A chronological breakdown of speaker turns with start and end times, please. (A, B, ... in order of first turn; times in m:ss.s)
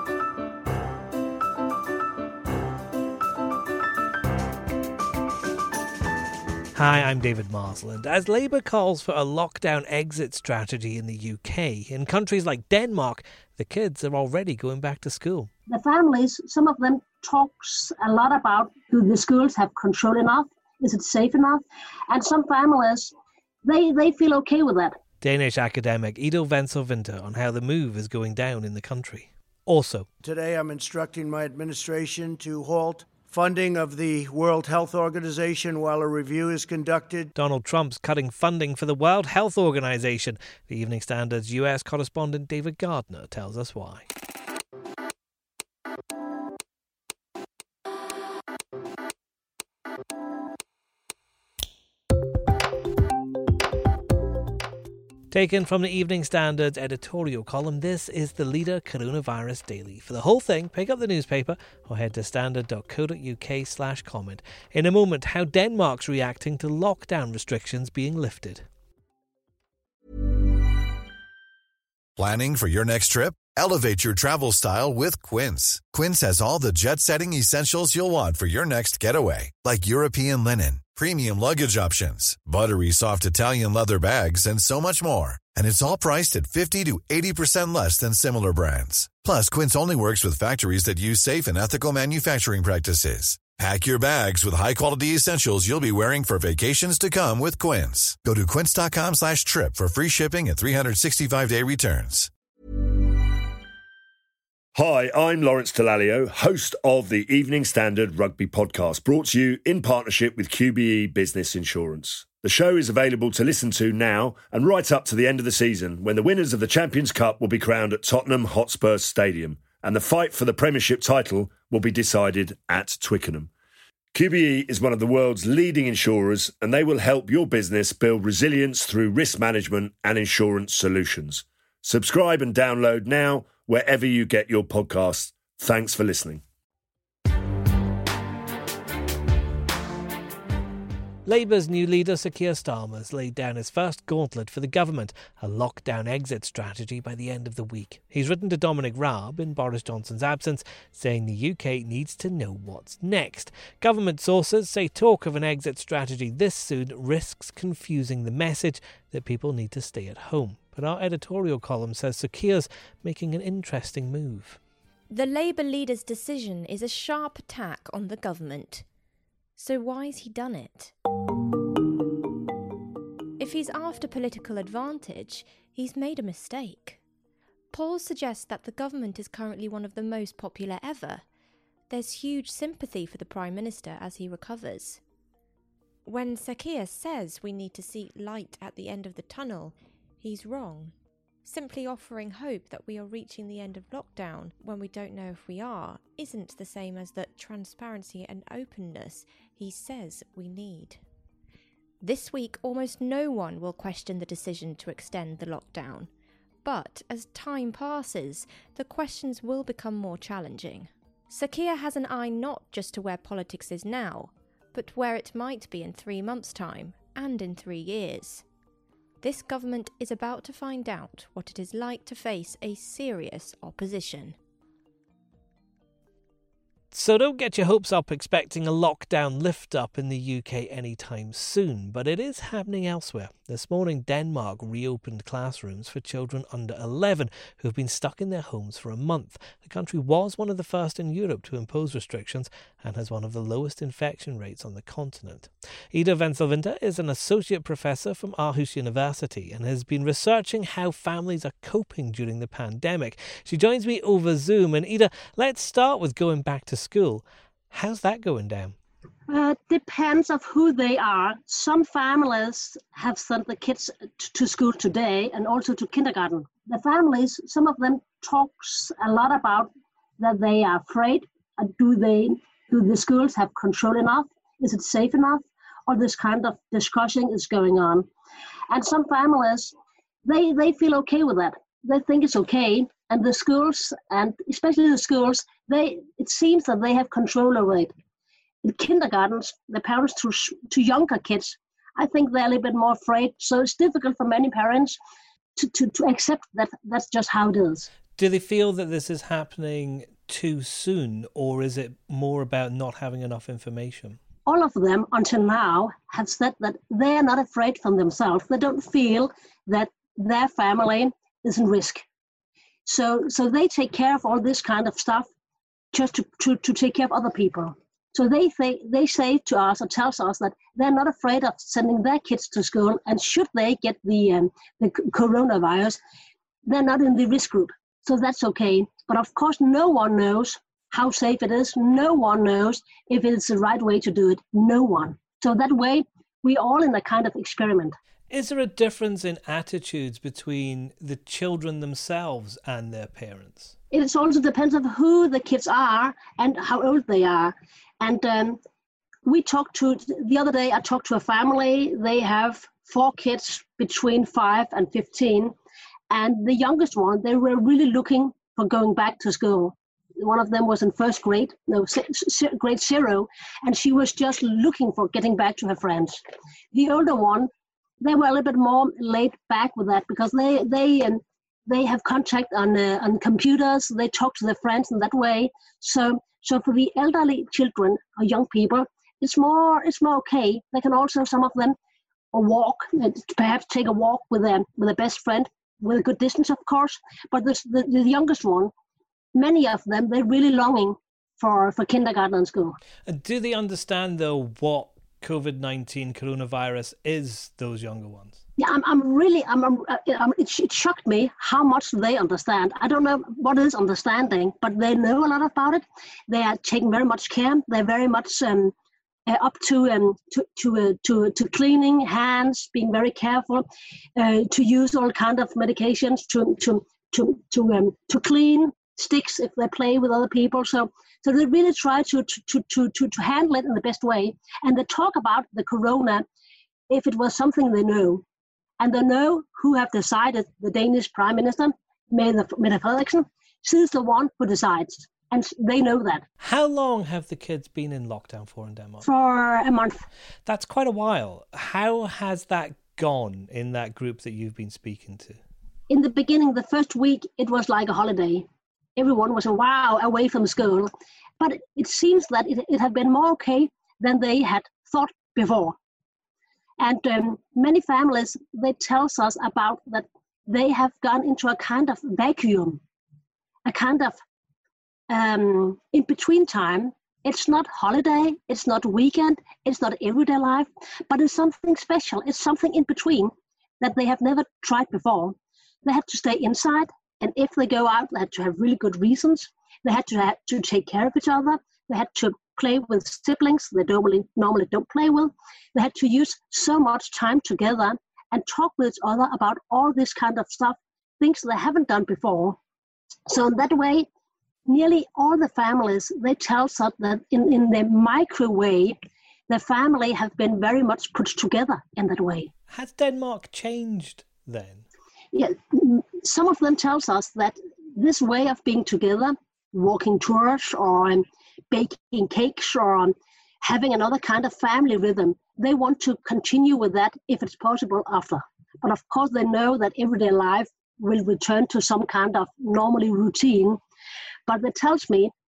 0:06.8-0:15.5 A
0:15.7-0:25.0 B
0:25.2-0:30.1 A
0:30.2-0:37.3 C
0:37.4-0:44.1 A
0:55.3-1:08.7 A
1:12.2-1:42.3 D
1:44.8-2:03.5 E
2:04.1-2:16.4 E
2:21.3-2:44.6 A
2:45.1-2:48.8 F
2:49.6-2:50.9 F
2:53.4-2:57.0 F
2:57.7-3:01.2 F
3:01.9-3:05.0 F
3:06.1-3:10.9 F
3:11.4-3:21.0 F
3:22.0-3:26.1 F
3:26.6-3:38.4 F
3:39.2-3:44.4 F
3:46.9-4:18.8 A
4:19.3-4:38.1 B
4:38.7-4:47.9 B
4:48.6-4:55.0 B
4:55.6-4:57.9 B
4:58.2-5:04.2 A
5:04.5-5:12.0 B
5:12.8-5:15.3 B
5:15.9-5:26.0 B
5:26.6-5:38.0 B
5:38.3-5:43.7 A
5:43.9-5:48.6 B
5:49.2-5:55.6 B
5:56.1-6:21.8 B
6:22.3-6:28.7 B
6:29.3-6:32.8 B
6:33.1-6:38.4 A
6:38.6-6:48.7 B
6:49.3-7:06.3 B
7:06.9-7:08.2 B
7:08.8-7:16.2 B
7:16.4-7:19.1 A
7:19.0-7:20.1 B
7:20.5-7:25.4 A
7:25.9-7:35.8 B
7:36.8-7:42.8 B
7:43.6-7:44.2 B
7:45.1-8:12.6 B
8:13.3-8:14.1 B
8:14.7-8:22.5 B
8:22.7-8:24.8 A
8:25.3-8:43.8 B
8:44.5-8:45.3 B